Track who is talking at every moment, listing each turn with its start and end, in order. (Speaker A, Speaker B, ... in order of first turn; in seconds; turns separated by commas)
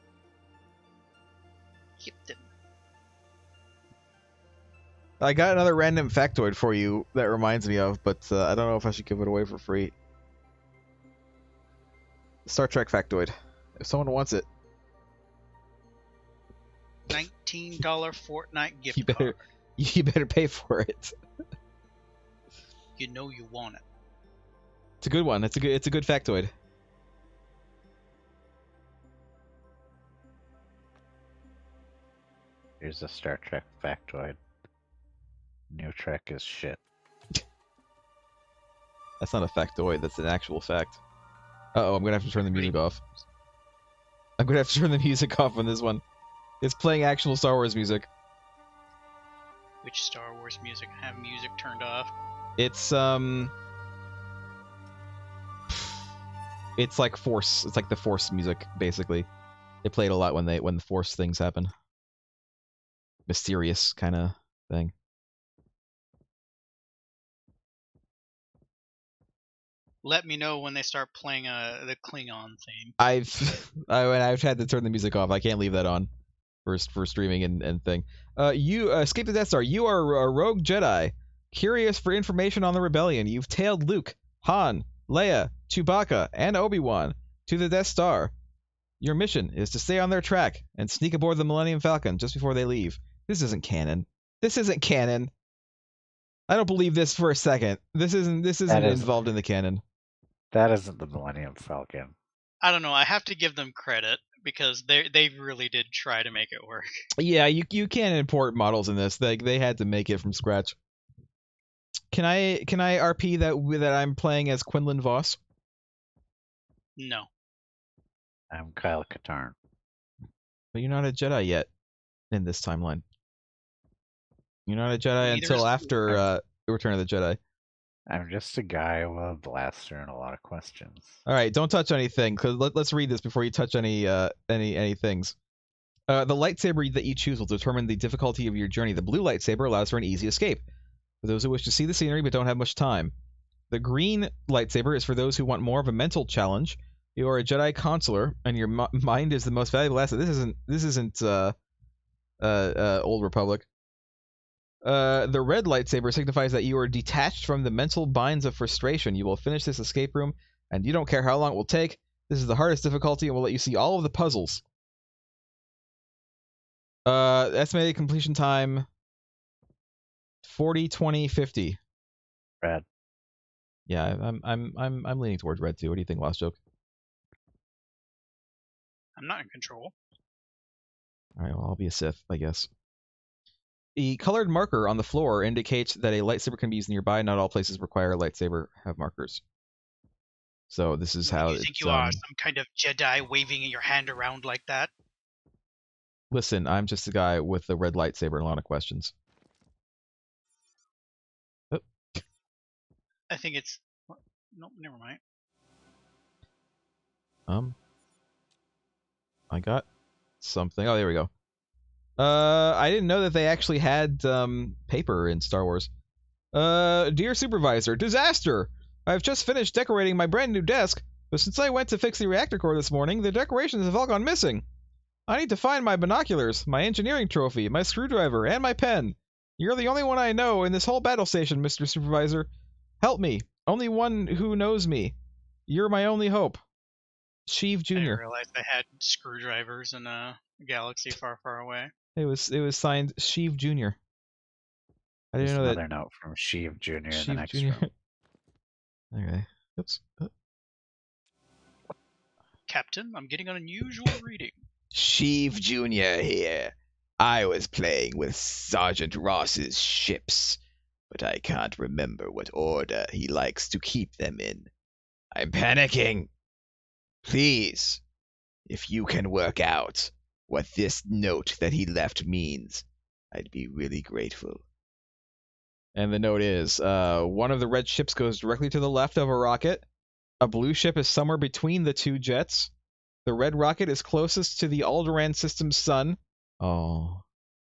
Speaker A: 2.0-2.5, Speaker B: 5.2-9.9, Speaker B: 12.4-14.4, Speaker A: 17.1-19.4, Speaker B: 18.9-21.1, Speaker A: 23.0-23.8, Speaker B: 25.0-26.5, Speaker C: 32.8-34.4, Speaker C: 35.7-36.8, Speaker B: 39.2-41.0, Speaker B: 41.7-43.0, Speaker A: 42.4-43.2, Speaker B: 44.4-46.0, Speaker B: 46.6-48.1, Speaker A: 49.8-52.1, Speaker B: 52.6-53.5, Speaker B: 56.8-59.3, Speaker B: 59.8-61.7, Speaker B: 63.3-64.9, Speaker A: 70.0-72.9, Speaker B: 73.0-76.1, Speaker B: 76.7-88.3, Speaker B: 89.0-95.3, Speaker B: 96.5-99.8, Speaker C: 98.7-99.1, Speaker C: 100.5-102.1, Speaker A: 102.6-106.9, Speaker B: 107.2-110.8, Speaker B: 112.1-115.4, Speaker A: 117.0-117.3, Speaker C: 118.5-119.5, Speaker B: 120.7-121.7, Speaker B: 122.3-123.0, Speaker B: 124.7-127.4, Speaker A: 125.2-126.3, Speaker C: 128.1-131.2, Speaker B: 131.2-135.3, Speaker B: 136.1-140.6, Speaker B: 141.2-143.1, Speaker B: 143.7-151.5, Speaker B: 152.4-153.7, Speaker B: 154.8-164.6, Speaker B: 167.1-168.8, Speaker B: 170.4-171.8, Speaker B: 173.9-176.6, Speaker A: 179.2-179.9, Speaker B: 181.4-182.7, Speaker B: 183.9-189.4, Speaker B: 190.7-192.2, Speaker A: 191.2-194.9, Speaker B: 196.3-199.1, Speaker B: 201.7-202.2, Speaker A: 203.3-205.2, Speaker B: 207.5-207.8, Speaker B: 209.5-209.8, Speaker B: 210.4-211.3, Speaker B: 212.2-215.9, Speaker B: 216.5-224.6, Speaker B: 225.3-232.5, Speaker B: 233.0-235.1, Speaker B: 235.7-236.6, Speaker B: 237.5-238.2, Speaker A: 237.9-241.9, Speaker B: 242.2-244.0, Speaker B: 245.3-245.8, Speaker C: 245.4-247.8, Speaker B: 247.1-247.9, Speaker B: 249.1-250.3, Speaker A: 252.7-254.6, Speaker B: 254.9-260.6, Speaker B: 261.1-264.7, Speaker B: 265.3-266.3, Speaker B: 267.2-268.0, Speaker B: 268.7-274.6, Speaker B: 275.9-279.8, Speaker B: 280.4-282.7, Speaker B: 283.2-287.2